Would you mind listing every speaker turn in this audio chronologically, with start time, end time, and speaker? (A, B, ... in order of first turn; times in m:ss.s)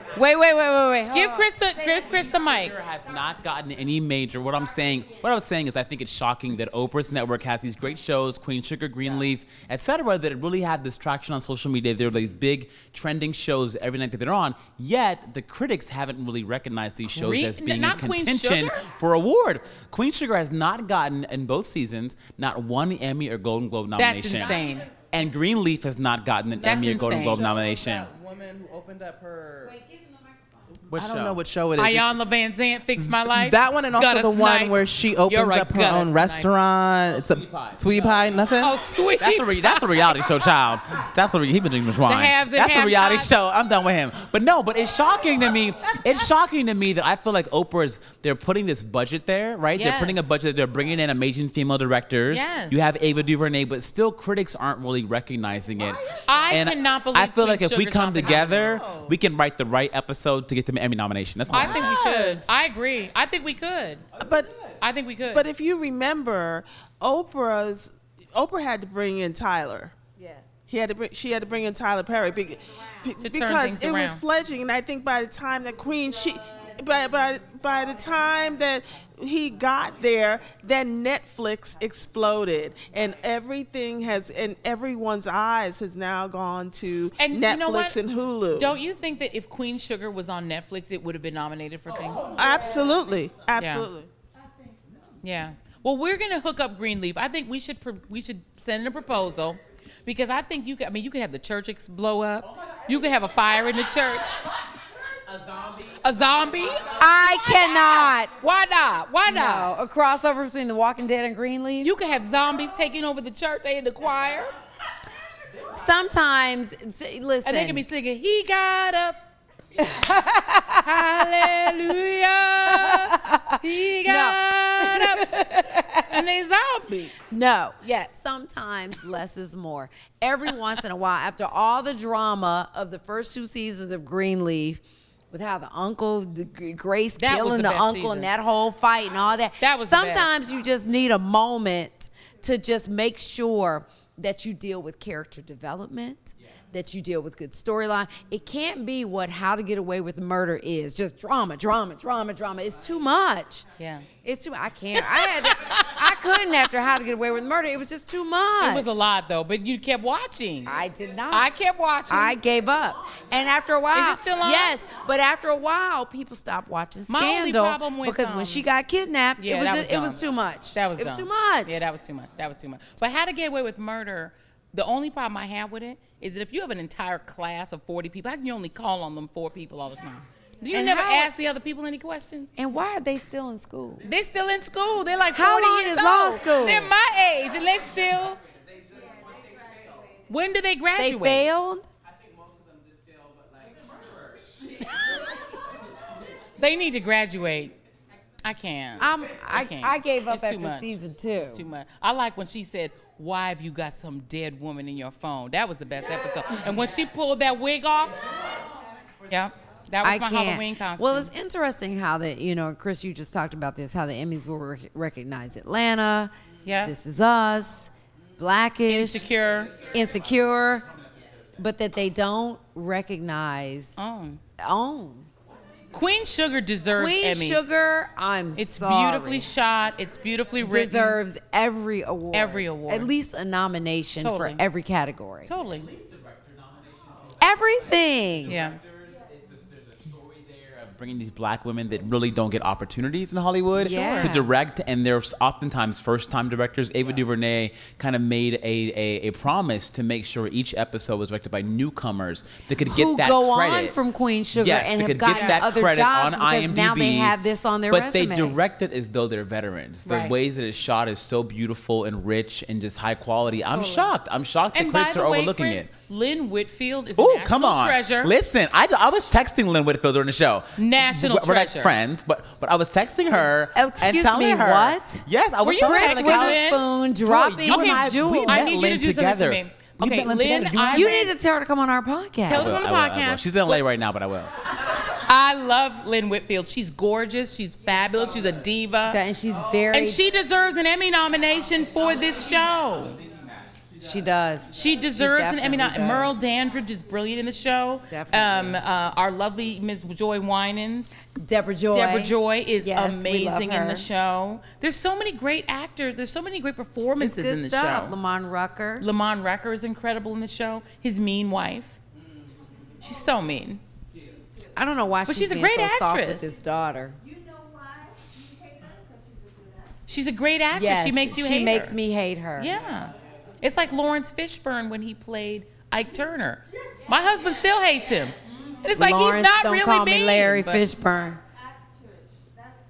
0:00.1-0:02.1 A
0:01.1-0:02.8 B
0:02.1-0:28.1 C
0:17.1-0:18.9 B
0:24.0-0:24.9 B
0:26.6-0:27.5 B
0:27.0-0:29.8 D
0:29.7-0:30.4 A
0:30.9-0:31.4 C
0:30.9-0:32.2 D
0:31.8-0:36.5 B
0:33.0-0:38.8 D
0:37.1-0:38.5 C
0:38.6-0:40.3 B
0:39.2-1:02.2 C
0:42.1-0:43.3 B
0:49.7-0:50.3 B
0:52.3-0:52.8 B
0:56.2-0:58.8 B
0:58.3-0:59.1 D
1:01.5-1:04.0 B
1:01.6-1:02.5 E
1:04.2-1:04.5 E
1:04.8-1:05.4 B
1:05.3-1:09.9 E
1:10.6-1:28.8 E
1:13.2-1:14.2 B
1:27.2-1:28.0 B
1:28.5-1:32.3 B
1:32.3-1:34.1 E
1:33.6-1:33.9 B
1:35.2-1:44.4 B
1:45.3-1:47.0 C
1:46.0-1:49.7 B
1:46.9-1:48.3 A
1:49.3-1:51.9 A
1:51.8-1:54.5 B
1:55.7-1:57.8 A
1:57.4-1:59.2 B
2:00.0-2:01.9 A
2:00.7-2:05.3 B
2:02.8-2:06.2 A
2:06.0-2:07.2 B
2:07.3-2:33.6 A
2:07.8-2:08.1 B
2:17.2-2:18.3 B
2:19.6-2:20.4 B
2:33.8-2:34.1 B
2:34.2-2:39.0 A
2:34.9-2:36.1 B
2:38.6-2:40.7 B
2:40.6-2:51.8 A
2:41.3-2:42.4 B
2:43.9-2:44.7 B
2:47.1-2:48.6 B
2:49.4-2:50.2 B
2:50.7-3:02.5 B
3:00.7-3:01.3 A
3:02.6-3:04.0 A
3:04.0-3:08.4 B
3:05.3-3:06.9 A
3:10.3-3:11.5 B
3:11.0-3:11.9 A
3:16.6-3:17.8 B
3:18.4-3:28.2 B
3:19.0-3:21.6 A
3:29.3-3:31.3 B
3:30.0-3:39.3 A
3:36.6-3:36.9 B
3:38.9-3:39.7 B
3:39.9-3:40.9 A
3:41.6-3:43.9 A
3:44.0-3:44.4 B
3:44.6-3:45.3 A
3:45.9-3:47.7 B
3:46.9-3:49.5 A
3:48.6-3:51.2 B
3:50.6-3:55.5 A
3:52.3-3:53.1 B
3:54.2-3:54.6 B
3:55.4-3:55.9 B
3:55.6-3:57.7 C
3:57.4-3:58.6 A
3:58.5-3:58.8 B
3:58.5-4:13.9 C
4:03.7-4:04.4 B
4:03.8-4:04.4 A
4:12.8-4:18.6 A
4:14.5-4:17.3 C
4:15.3-4:15.6 B
4:17.9-4:25.9 C
4:20.0-4:20.3 B
4:23.7-4:24.1 B
4:24.7-4:28.3 B
4:27.2-4:36.7 C
4:30.8-4:31.9 B
4:33.7-4:35.3 A
4:35.6-4:41.3 B
4:35.8-4:38.7 A
4:37.2-4:41.3 C
4:40.8-4:42.8 A
4:42.4-4:43.8 B
4:42.5-4:44.5 C
4:45.1-4:49.2 B
4:49.0-4:50.2 A
4:49.9-4:53.2 B
4:53.3-4:53.6 C
4:54.0-4:56.3 A
4:54.7-5:01.1 B
4:58.1-4:58.8 A
5:01.4-5:04.1 A
5:01.9-5:08.1 B
5:07.2-5:09.0 A
5:09.0-5:12.0 B
5:13.0-5:13.8 B
5:14.7-5:17.2 A
5:15.3-5:16.5 B
5:20.1-5:22.0 B
5:20.7-5:22.8 A
5:22.6-5:30.9 B
5:28.9-5:31.4 A